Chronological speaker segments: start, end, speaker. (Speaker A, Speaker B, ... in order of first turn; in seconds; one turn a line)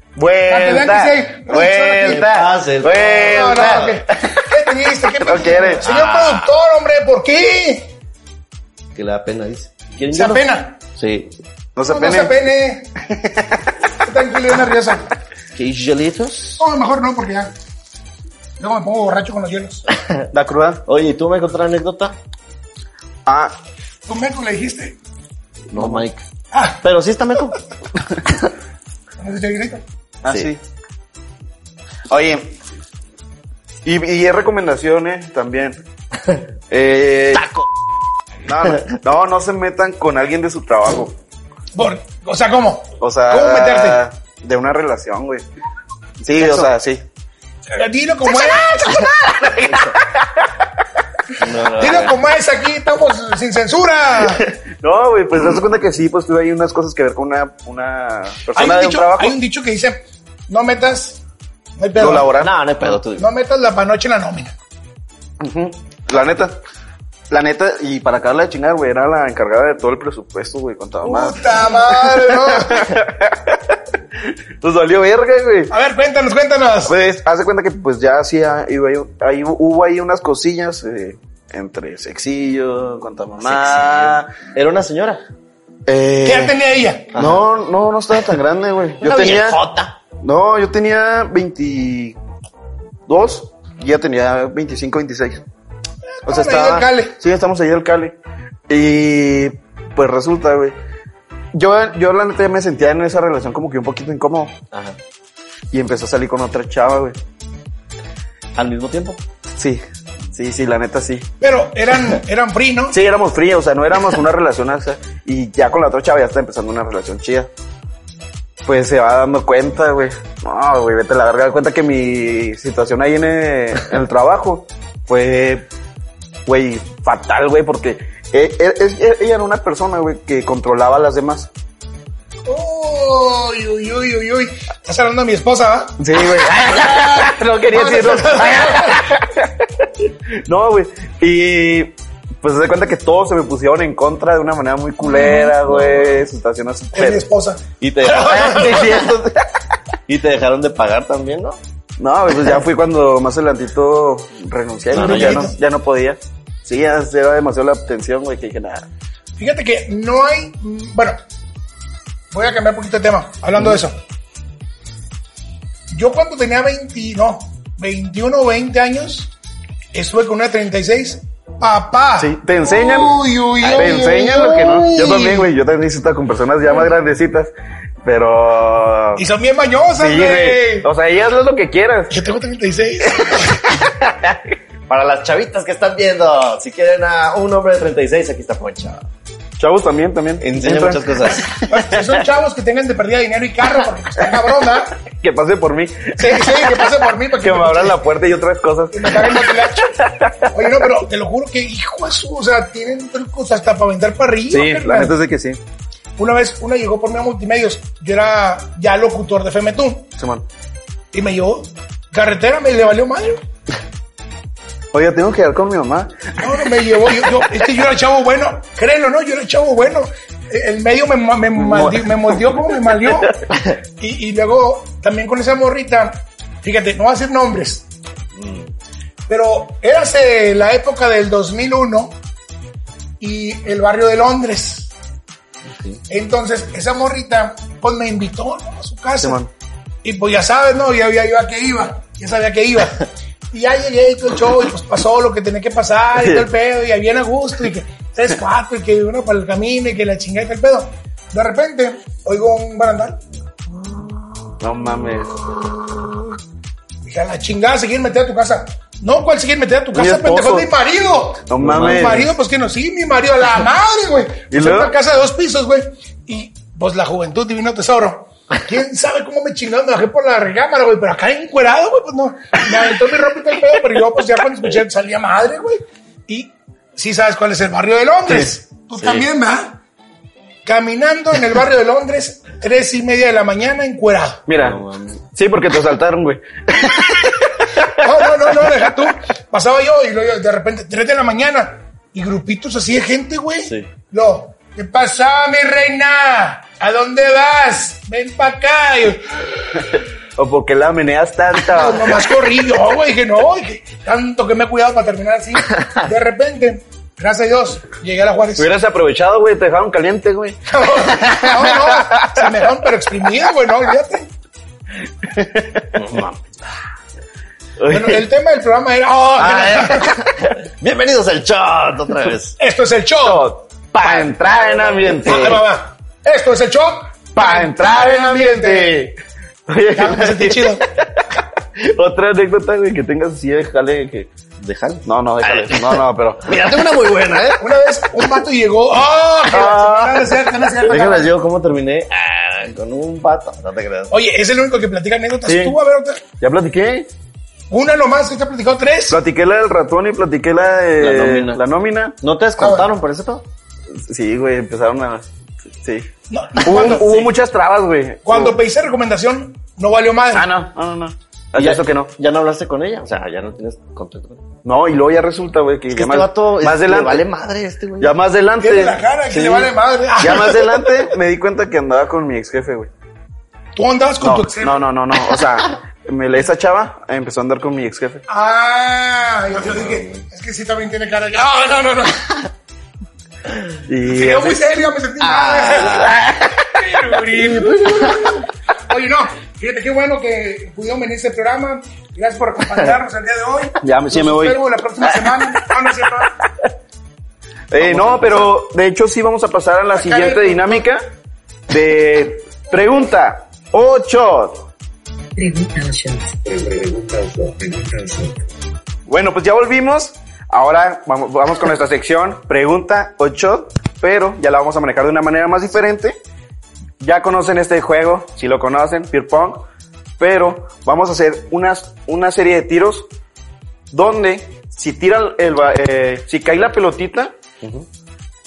Speaker A: 0.2-4.3
Speaker B: 0.5-2.3
Speaker C: 2.0-4.0
Speaker B: 3.2-7.9
Speaker A: 5.2-6.5
Speaker C: 5.8-6.3
Speaker C: 8.9-11.3
Speaker B: 10.1-10.8
Speaker A: 11.8-12.4
Speaker B: 11.8-12.9
Speaker A: 13.1-13.6
Speaker B: 14.0-15.1
Speaker C: 15.5-16.6
Speaker B: 16.6-17.5
Speaker B: 18.6-19.9
Speaker C: 19.9-20.3
Speaker A: 20.3-20.8
Speaker C: 20.9-22.2
Speaker A: 23.3-23.5
Speaker B: 24.1-25.0
Speaker C: 25.7-26.2
Speaker A: 25.8-26.1
Speaker B: 26.5-26.8
Speaker C: 26.8-27.6
Speaker B: 29.2-29.8
Speaker A: 30.2-30.6
Speaker A: 32.1-32.5
Speaker A: 33.9-35.8
Speaker A: 36.7-37.5
Speaker C: 37.3-37.7
Speaker A: 38.5-41.1
Speaker B: 41.8-44.0
Speaker A: 43.0-45.4
Speaker A: 46.2-47.0
Speaker B: 47.7-49.2
Speaker A: 48.8-50.5
Speaker C: 49.6-50.0
Speaker C: 51.4-52.2
Speaker B: 51.8-54.5
Speaker A: 54.4-59.4
Speaker B: 58.5-61.2
Speaker B: 61.8-62.3
Speaker A: 62.0-62.5
Speaker C: 62.3-63.3
Speaker B: 63.2-64.5
Speaker A: 65.4-66.6
Speaker A: 67.3-73.8
Speaker B: 71.0-73.0
Speaker A: 74.6-75.7
Speaker B: 75.7-77.0
Speaker A: 76.9-84.3
Speaker C: 83.4-85.2
Speaker A: 85.9-86.5
Speaker B: 86.2-87.1
Speaker C: 87.1-87.5
Speaker A: 87.1-89.6
Speaker C: 89.0-90.0
Speaker A: 90.2-92.2
Speaker A: 93.1-95.4
Speaker B: 96.2-97.2
Speaker A: 96.3-98.1
Speaker A: 98.7-100.8
Speaker A: 101.5-104.6
Speaker C: 104.7-105.0
Speaker A: 105.7-107.2
Speaker C: 108.6-109.2
Speaker A: 109.6-111.3
Speaker B: 111.4-113.0
Speaker A: 112.9-117.5
Speaker A: 118.7-125.7
Speaker A: 126.5-131.5
Speaker B: 132.5-136.0
Speaker A: 136.0-139.9
Speaker B: 136.5-139.1
Speaker A: 140.5-147.2
Speaker B: 145.2-145.5
Speaker C: 145.3-146.2
Speaker B: 146.9-148.9
Speaker C: 147.8-149.1
Speaker A: 148.2-149.5
Speaker C: 150.1-151.6
Speaker A: 152.0-158.9
Speaker C: 154.9-155.5
Speaker B: 154.9-155.6
Speaker B: 159.4-161.2
Speaker B: 162.3-164.0
Speaker B: 165.9-169.3
Speaker B: 169.9-175.5
Speaker A: 172.2-177.5
Speaker A: 178.0-179.2
Speaker B: 179.2-180.9
Speaker A: 180.0-182.1
Speaker B: 182.1-183.6
Speaker A: 183.2-184.4
Speaker C: 184.9-189.0
Speaker A: 189.6-192.1
Speaker C: 190.4-191.5
Speaker B: 191.5-195.0
Speaker A: 195.1-200.5
Speaker B: 196.2-198.0
Speaker B: 198.9-199.9
Speaker B: 200.5-205.1
Speaker A: 204.5-205.6
Speaker B: 206.2-210.1
Speaker A: 210.2-210.4
Speaker B: 211.1-213.4
Speaker A: 214.9-217.2
Speaker B: 216.4-223.4
Speaker A: 221.6-222.7
Speaker B: 224.0-227.9
Speaker C: 228.3-228.7
Speaker B: 229.3-232.2
Speaker B: 233.2-234.9
Speaker C: 235.6-236.0
Speaker B: 236.1-239.4
Speaker A: 239.2-239.5
Speaker B: 240.0-253.2
Speaker A: 246.1-246.5
Speaker A: 254.6-256.1
Speaker B: 257.1-279.8
Speaker A: 259.9-260.7
Speaker A: 261.5-262.3
Speaker C: 261.6-262.2
Speaker A: 264.5-264.9
Speaker C: 279.0-279.2
Speaker B: 280.6-284.4
Speaker A: 284.5-284.8
Speaker C: 284.6-285.1
Speaker A: 285.3-288.5
Speaker B: 288.0-299.9
Speaker A: 299.9-302.3
Speaker B: 301.7-308.7
Speaker A: 308.6-312.5
Speaker B: 310.7-314.3
Speaker A: 315.2-316.2
Speaker C: 315.9-316.4
Speaker A: 317.8-318.2
Speaker B: 317.9-320.1
Speaker C: 319.4-322.6
Speaker B: 322.6-323.5
Speaker A: 323.2-325.6
Speaker C: 323.9-325.6
Speaker B: 325.2-328.9
Speaker A: 327.4-329.2
Speaker A: 329.7-334.3
Speaker B: 329.9-330.8
Speaker C: 334.6-337.6
Speaker A: 335.1-336.5
Speaker B: 337.6-341.3
Speaker A: 339.5-340.4
Speaker C: 340.9-344.1
Speaker B: 344.1-346.2
Speaker A: 345.4-345.8
Speaker A: 346.4-347.1
Speaker B: 347.7-349.2
Speaker A: 349.1-352.2
Speaker C: 351.0-351.6
Speaker C: 352.2-353.4
Speaker B: 352.6-352.9
Speaker A: 353.9-355.3
Speaker A: 355.8-356.1
Speaker B: 356.3-357.3
Speaker A: 356.6-358.6
Speaker B: 358.2-360.5
Speaker A: 360.3-362.1
Speaker C: 361.6-364.4
Speaker A: 364.6-367.3
Speaker C: 365.9-368.2
Speaker A: 368.0-372.9
Speaker B: 368.6-370.9
Speaker B: 373.8-374.8
Speaker A: 374.2-378.2
Speaker B: 378.3-382.5
Speaker C: 379.7-380.2
Speaker A: 383.9-384.6
Speaker B: 384.1-386.2
Speaker C: 385.2-386.3
Speaker A: 385.9-386.4
Speaker B: 386.7-396.3
Speaker A: 387.4-388.1
Speaker A: 393.8-395.6
Speaker A: 397.7-401.0
Speaker C: 397.8-398.5
Speaker B: 399.9-400.9
Speaker A: 401.7-404.7
Speaker D: 405.4-408.5
Speaker A: 409.1-416.2
Speaker A: 417.0-419.6
Speaker A: 420.2-423.1
Speaker A: 423.9-427.3